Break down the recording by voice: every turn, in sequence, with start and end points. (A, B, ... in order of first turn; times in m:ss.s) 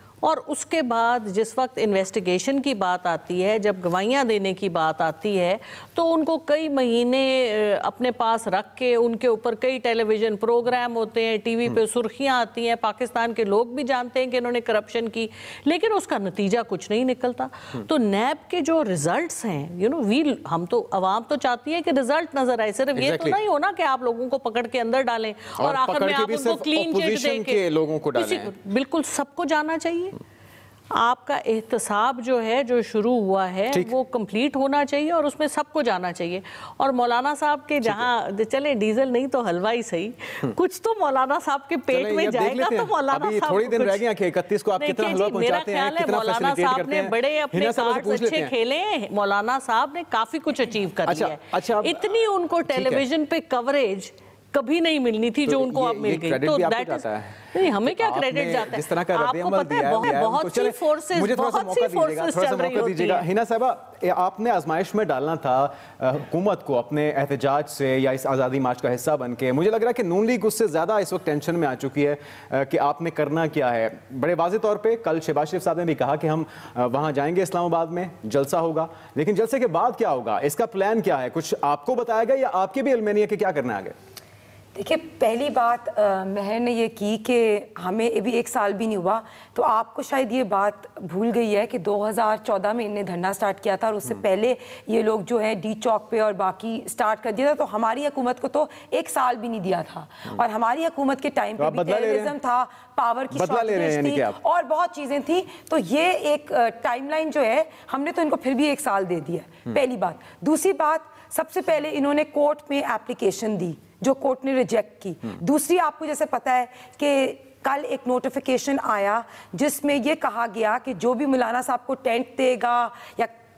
0:00.2-0:30.2 A
0:23.0-0:23.4 B
0:25.6-0:28.5 B
0:30.9-0:44.0 A
0:41.9-0:48.5 B
0:44.8-1:03.2 A
0:51.1-0:52.0 B
0:52.7-0:53.0 B
0:55.5-1:23.9 B
1:24.7-2:03.3 C
1:41.6-1:42.3 B
1:43.3-1:44.4 B